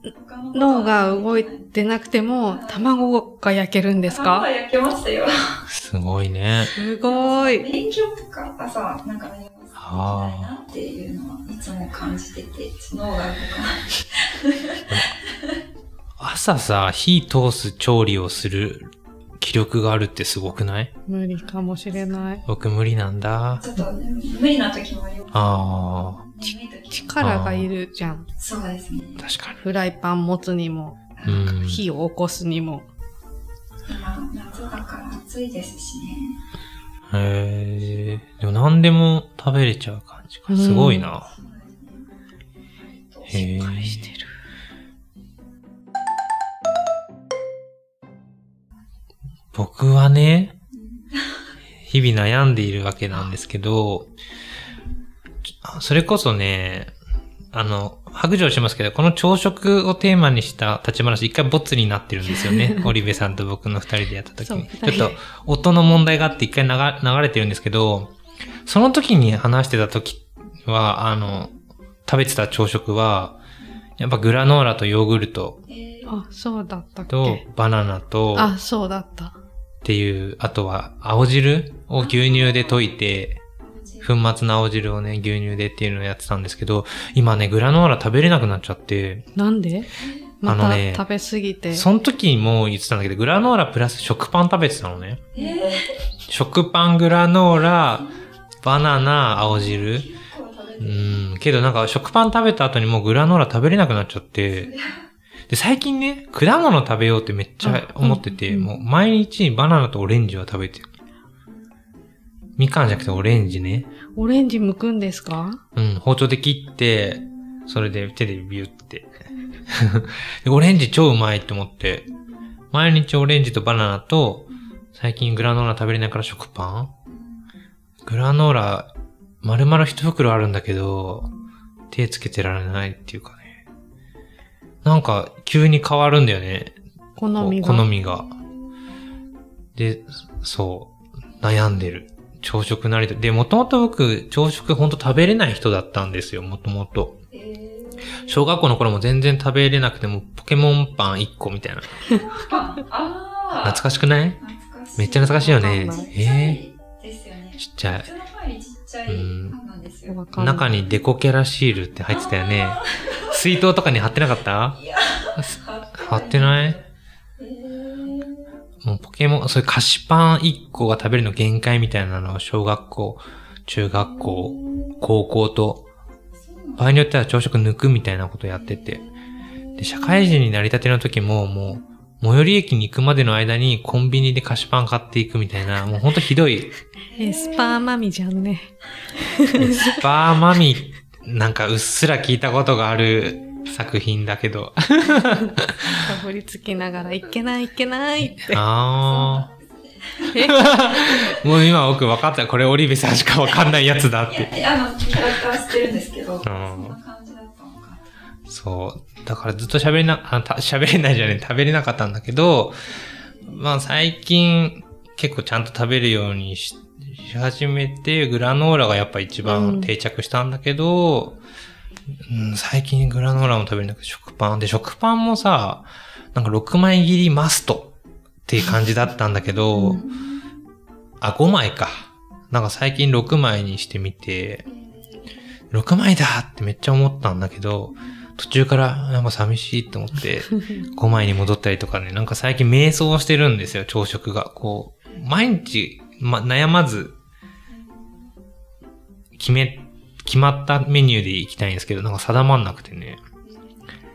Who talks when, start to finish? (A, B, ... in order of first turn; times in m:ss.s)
0:00.1-0:02.9 A
0:00.5-0:04.5 B
0:04.0-0:05.6 A
0:05.7-0:06.7 C
0:06.7-0:15.6 A
0:06.8-0:07.7 B
0:09.8-0:10.5 C
0:16.2-0:20.9 C
0:21.1-0:22.4 B
0:21.4-0:22.5 A
0:22.5-0:23.6 C
0:23.6-0:27.3 A
0:25.3-0:26.2 C
0:26.4-0:28.3 B
0:27.2-0:27.7 C
0:28.4-0:29.3 A
0:29.2-0:29.6 C
0:29.6-0:32.8 B
0:31.2-0:31.4 A
0:31.2-0:31.8 C
0:33.8-0:36.4 A
0:37.1-0:41.3 C
0:40.5-0:41.1 B
0:41.3-0:42.1 A
0:42.8-0:43.5 A
0:43.3-0:44.1 C
0:43.5-0:44.3 B
0:49.5-0:50.5 C
0:50.7-0:51.5 A
0:51.8-0:54.1 C
0:55.5-0:56.9 C
0:57.5-1:08.1 C
1:02.4-1:02.9 B
1:04.4-1:05.2 B
1:08.6-1:11.5 C
1:12.0-1:13.4 C
1:14.0-1:15.6 C
1:15.7-1:16.2 A
1:16.0-1:17.4 B
1:17.1-1:18.5 C
1:18.3-1:19.3 B
1:19.8-1:23.4 C
1:22.0-1:22.9 A
1:23.6-1:24.2 A
1:24.0-1:29.3 C
1:29.4-1:29.9 B
1:30.0-1:30.3 A
1:30.4-1:31.8 B
1:30.4-1:31.0 C
1:31.7-1:35.3 C
1:35.3-1:36.0 A
1:36.3-1:38.1 C
1:38.0-1:38.2 A
1:38.6-1:40.1 C
1:39.3-1:41.2 A
1:40.8-1:44.7 C
1:44.5-1:45.1 A
1:45.5-1:50.9 C
1:47.6-1:48.7 B
1:52.6-1:53.9 C
1:54.2-1:55.6 B
1:55.7-1:59.1 C
1:59.7-2:02.0 C
2:02.1-2:02.4 A
2:02.7-2:06.9 C
2:07.1-2:07.5 A
2:08.0-2:08.9 C
2:09.4-2:11.3 C
2:11.9-2:13.6 C
2:14.8-2:16.8 C
2:17.2-2:17.9 B
2:17.3-2:18.3 C
2:19.7-2:27.2 C
2:27.3-2:28.4 A
2:28.1-2:32.2 C
2:32.0-2:33.8 A
2:33.5-2:34.4 C
2:34.4-2:40.2 A
2:35.0-2:36.6 C
2:35.5-2:36.1 B
2:37.6-2:38.1 C
2:39.1-2:39.6 C
2:40.1-2:40.7 B
2:40.4-2:44.8 C
2:42.1-2:43.4 A
2:44.7-2:46.8 A
2:45.4-2:46.8 C
2:47.4-2:48.5 A
2:48.8-2:55.8 C
2:54.0-2:55.0 A
2:56.4-2:57.0 A
2:56.8-2:59.0 C
2:59.8-3:06.7 C
3:07.1-3:07.8 A
3:07.2-3:10.0 B
3:09.6-3:16.0 C
3:13.2-3:13.7 A
3:16.0-3:18.6 B
3:18.4-3:19.5 C
3:19.0-3:21.5 A
3:20.3-3:20.9 B
3:20.3-3:24.5 C
3:24.3-3:28.1 A
3:26.4-3:27.0 C
3:28.5-3:41.4 C
3:33.0-3:33.6 A
3:39.4-3:39.9 B
3:42.2-3:47.9 C
3:48.4-3:50.0 C
3:49.7-3:50.0 B
3:49.8-3:50.3 A
3:51.2-3:54.6 C
3:54.6-3:55.3 A
3:55.7-4:07.2 C
4:07.7-4:08.3 A
4:09.4-4:13.2 C
4:13.4-4:13.9 A